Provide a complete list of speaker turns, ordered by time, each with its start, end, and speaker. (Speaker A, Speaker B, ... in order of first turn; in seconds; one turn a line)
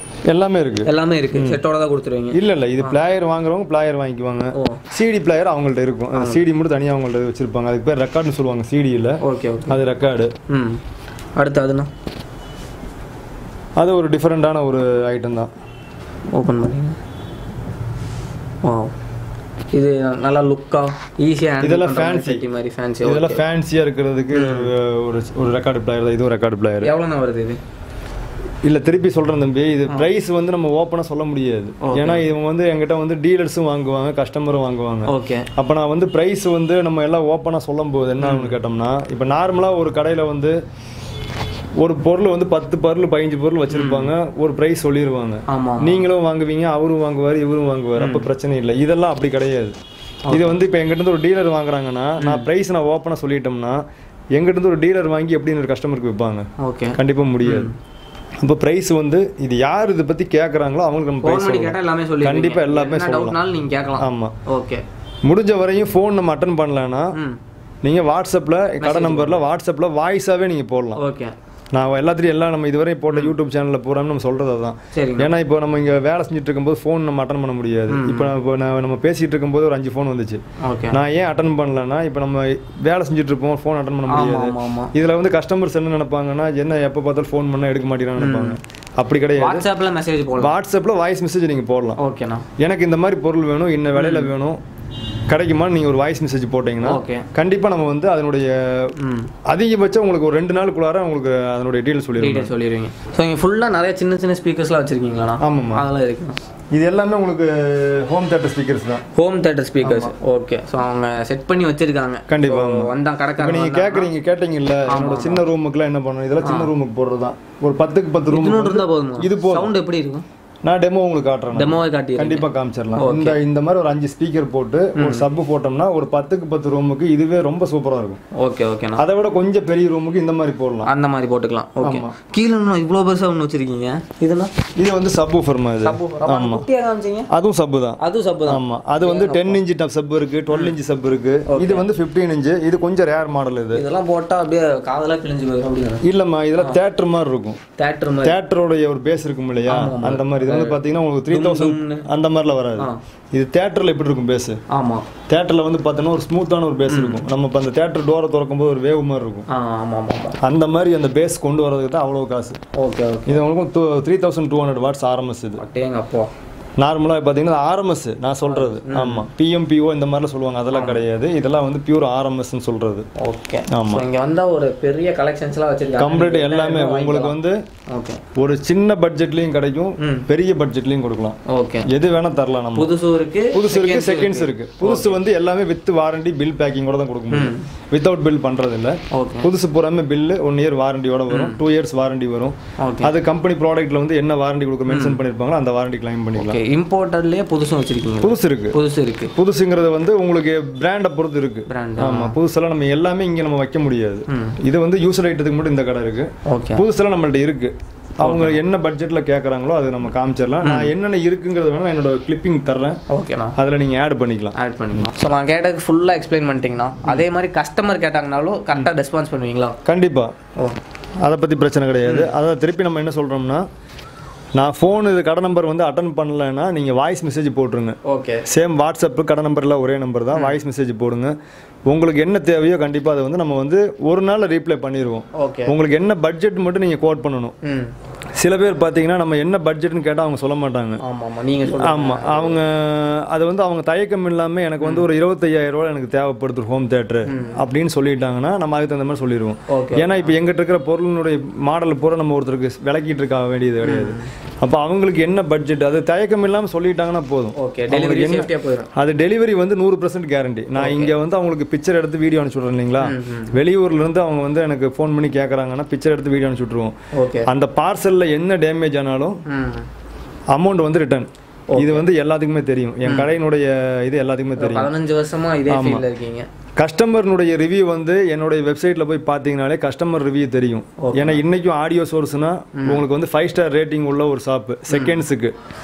Speaker A: 0.3-1.6
Speaker B: 0.8-3.0
Speaker A: 2.3-10.3
Speaker B: 4.5-4.8
Speaker B: 6.1-6.4
Speaker B: 9.2-9.8
Speaker B: 10.5-10.8
Speaker B: 11.3-11.9
Speaker A: 13.8-15.5
Speaker B: 16.3-17.0
Speaker B: 18.6-18.9
Speaker B: 19.7-23.4
Speaker A: 21.6-22.4
Speaker A: 23.0-26.9
Speaker B: 24.3-24.7
Speaker B: 26.8-27.6
Speaker A: 28.6-40.5
Speaker B: 31.8-32.3
Speaker B: 35.0-35.5
Speaker B: 38.2-38.6
Speaker A: 41.8-49.8
Speaker B: 43.7-44.1
Speaker B: 45.5-46.0
Speaker B: 48.0-48.3
Speaker B: 50.2-50.6
Speaker A: 50.3-53.8
Speaker B: 52.2-52.5
Speaker A: 54.3-57.7
Speaker B: 56.6-57.7
Speaker A: 58.4-63.4
Speaker B: 61.2-64.8
Speaker A: 64.0-64.3
Speaker A: 65.2-67.2
Speaker B: 67.1-67.4
Speaker A: 67.8-71.0
Speaker B: 68.8-69.5
Speaker B: 71.0-71.3
Speaker A: 71.7-80.4
Speaker B: 74.9-75.3
Speaker B: 77.9-78.3
Speaker B: 80.6-81.0
Speaker A: 80.9-89.6
Speaker B: 84.1-84.9
Speaker B: 88.2-88.6
Speaker B: 89.3-90.5
Speaker A: 90.4-92.0
Speaker B: 92.0-92.5
Speaker A: 92.6-94.6
Speaker B: 93.9-94.3
Speaker A: 95.3-98.9
Speaker B: 96.8-97.3
Speaker B: 99.0-99.3
Speaker A: 99.5-102.5
Speaker B: 102.2-106.4
Speaker A: 105.4-105.8
Speaker A: 106.7-109.0
Speaker B: 109.1-114.1
Speaker A: 109.8-110.1
Speaker A: 112.3-119.7
Speaker B: 114.9-115.4
Speaker B: 116.4-116.7
Speaker B: 118.3-120.2
Speaker A: 120.6-128.2
Speaker B: 121.5-123.4
Speaker B: 125.0-125.3
Speaker B: 128.3-129.0
Speaker A: 129.0-130.9
Speaker B: 130.8-134.5
Speaker A: 131.8-132.1
Speaker A: 134.8-136.7
Speaker B: 135.8-137.3
Speaker A: 137.3-143.8
Speaker B: 138.0-139.6
Speaker B: 140.5-140.7
Speaker B: 141.5-141.9
Speaker B: 143.7-146.0
Speaker A: 146.0-147.6
Speaker B: 147.8-148.4
Speaker A: 148.2-154.6
Speaker B: 149.7-152.1
Speaker B: 154.7-155.1
Speaker A: 155.3-159.5
Speaker B: 156.9-157.3
Speaker B: 159.5-160.4
Speaker A: 160.4-162.6
Speaker B: 162.7-163.4
Speaker A: 163.3-165.6
Speaker B: 165.6-166.3
Speaker A: 166.8-173.1
Speaker B: 168.5-169.3
Speaker B: 170.7-171.0
Speaker B: 173.2-177.3
Speaker A: 173.7-174.0
Speaker A: 176.0-177.6
Speaker B: 177.9-178.2
Speaker A: 178.3-182.9
Speaker B: 180.0-180.3
Speaker B: 181.5-181.9
Speaker B: 182.7-185.2
Speaker A: 183.5-196.6
Speaker B: 187.3-187.7
Speaker B: 189.1-189.5
Speaker B: 191.3-191.6
Speaker B: 192.8-193.1
Speaker B: 194.9-195.2
Speaker B: 196.3-199.3
Speaker A: 198.2-198.8
Speaker A: 199.3-213.0
Speaker B: 201.7-202.3
Speaker B: 204.3-204.6
Speaker B: 206.4-206.8
Speaker B: 208.2-208.6
Speaker B: 210.6-210.9
Speaker B: 213.1-213.6
Speaker A: 213.6-215.1
Speaker B: 214.5-219.8
Speaker A: 219.8-220.3
Speaker A: 221.2-223.6
Speaker B: 222.0-222.3
Speaker A: 224.6-231.3
Speaker B: 228.0-228.4
Speaker B: 230.3-230.6
Speaker A: 231.9-237.5
Speaker B: 235.3-235.7
Speaker B: 237.6-237.9
Speaker A: 238.4-241.0
Speaker B: 241.0-242.6
Speaker A: 241.7-266.9
Speaker B: 244.8-245.1
Speaker B: 247.3-247.6
Speaker B: 249.7-250.3
Speaker B: 253.8-254.3
Speaker B: 257.6-258.9
Speaker B: 260.7-261.1
Speaker B: 263.0-263.5
Speaker B: 267.1-267.5
Speaker A: 267.4-269.4
Speaker B: 269.5-269.9
Speaker A: 270.5-274.9
Speaker B: 271.7-272.1
Speaker B: 273.0-273.3
Speaker B: 274.6-276.5
Speaker A: 275.7-276.0
Speaker A: 276.8-285.5
Speaker B: 281.0-281.4
Speaker B: 282.8-283.0
Speaker B: 284.9-285.2